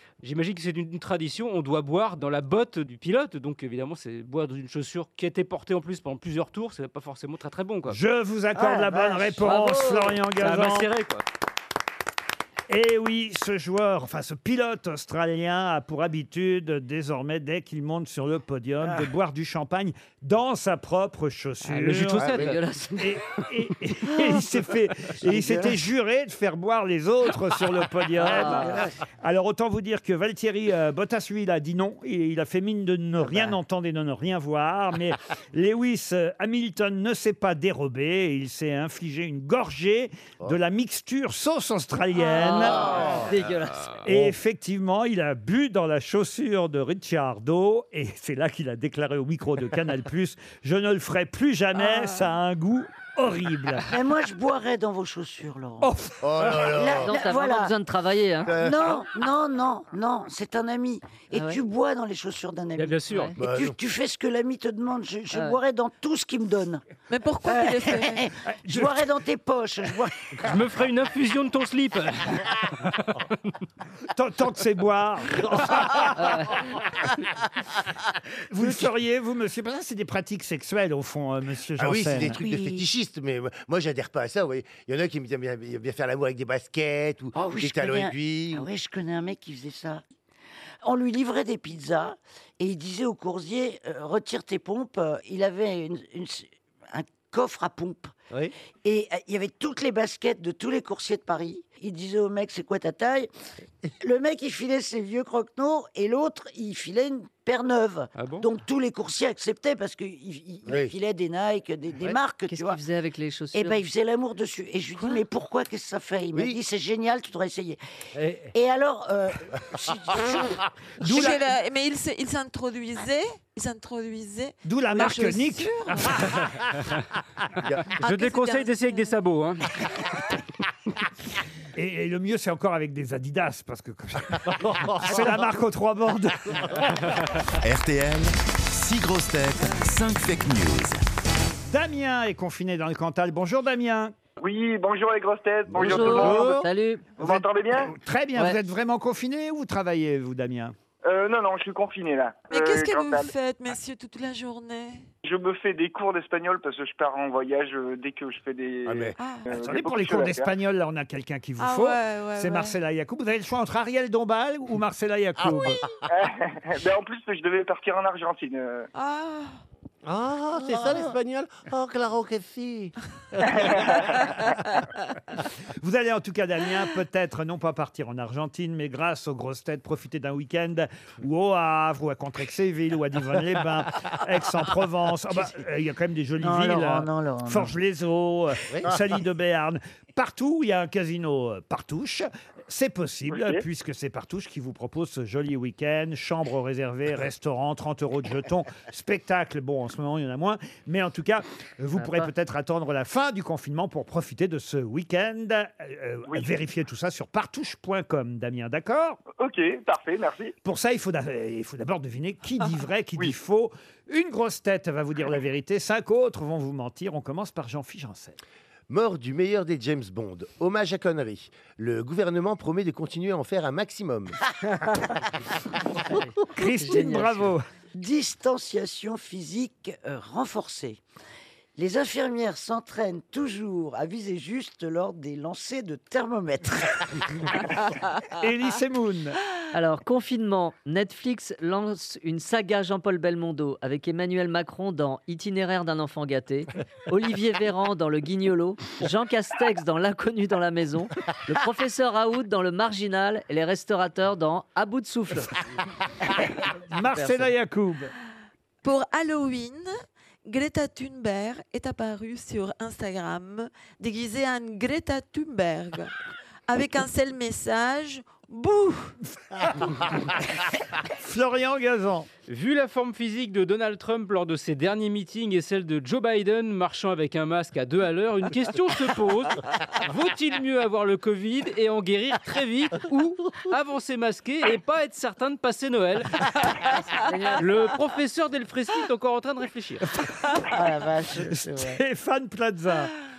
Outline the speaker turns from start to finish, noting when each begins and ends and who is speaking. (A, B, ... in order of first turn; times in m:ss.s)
0:00.2-0:08.0 A
0:07.9-0:10.9 B
0:08.6-0:09.9 C
0:09.5-0:10.0 D
0:10.4-0:11.2 A
0:12.7-0:22.4 B
0:21.6-0:22.6 A
0:22.2-0:23.2 D
0:23.0-0:42.9 B
0:24.1-0:24.4 C
0:25.2-0:25.8 C
0:28.2-0:28.9 D
0:28.4-0:28.9 C
0:42.3-0:44.0 D
0:44.0-0:53.9 B
0:53.9-0:55.9 C
0:55.8-0:56.6 B
0:56.2-0:57.2 E
0:56.4-0:57.7 C
0:57.0-0:58.6 D
0:58.4-0:59.0 E
0:58.5-1:06.8 C
1:01.3-1:01.6 D
1:02.8-1:03.3 A
1:03.1-1:03.4 D
1:03.4-1:03.8 E
1:05.3-1:05.6 D
1:07.1-1:08.3 F
1:07.4-1:10.3 C
1:08.5-1:09.1 B
1:10.4-1:13.2 A
1:14.1-1:16.7 B
1:16.2-1:16.6 D
1:18.5-1:22.4 B
1:21.8-1:28.7 E
1:22.3-1:22.8 C
1:27.4-1:30.0 C
1:30.8-1:38.2 C
1:38.8-1:43.3 C
1:44.0-1:52.8 C
1:48.2-1:48.4 A
1:50.7-1:50.9 E
1:52.5-1:53.8 D
1:53.5-1:57.8 C
1:58.5-2:00.6 C
2:01.0-2:01.5 B
2:01.0-2:06.3 F
2:04.6-2:06.3 B
2:08.0-2:09.8 A
2:08.0-2:09.1 F
2:11.8-2:16.8 B
2:14.4-2:15.5 G
2:17.6-2:21.0 H
2:21.7-2:24.1 B
2:24.4-2:26.5 I
2:25.8-2:26.7 G
2:25.8-2:27.1 D
2:27.2-2:30.8 B
2:27.2-2:27.9 I
2:31.0-2:33.3 I
2:32.5-2:35.1 F
2:35.2-2:40.5 I
2:38.8-2:39.2 E
2:39.2-2:39.5 F
2:39.5-2:45.8 B
2:41.6-2:42.8 F
2:46.1-2:48.9 I
2:48.9-2:49.6 F
2:50.0-2:54.2 G
2:54.2-2:54.5 F
2:55.8-3:29.2 B
3:06.4-3:07.7 C
3:13.3-3:13.6 I
3:22.0-3:22.3 D
3:29.4-3:30.5 I
3:30.6-3:38.4 B
3:38.9-3:44.4 E
3:46.1-3:47.5 D
3:46.6-3:47.6 B
3:48.0-3:51.0 C
3:51.8-3:57.5 C
3:58.4-3:59.4 B
3:59.7-4:15.6 D
4:16.9-4:18.1 B
4:17.1-4:17.5 D
4:18.8-4:19.9 F
4:20.5-4:26.1 F
4:26.7-4:29.2 F
4:31.1-4:32.3 B
4:32.5-4:46.5 A
4:47.2-4:47.8 D
4:47.6-4:50.1 A
4:50.7-4:52.0 C
4:51.5-4:53.1 B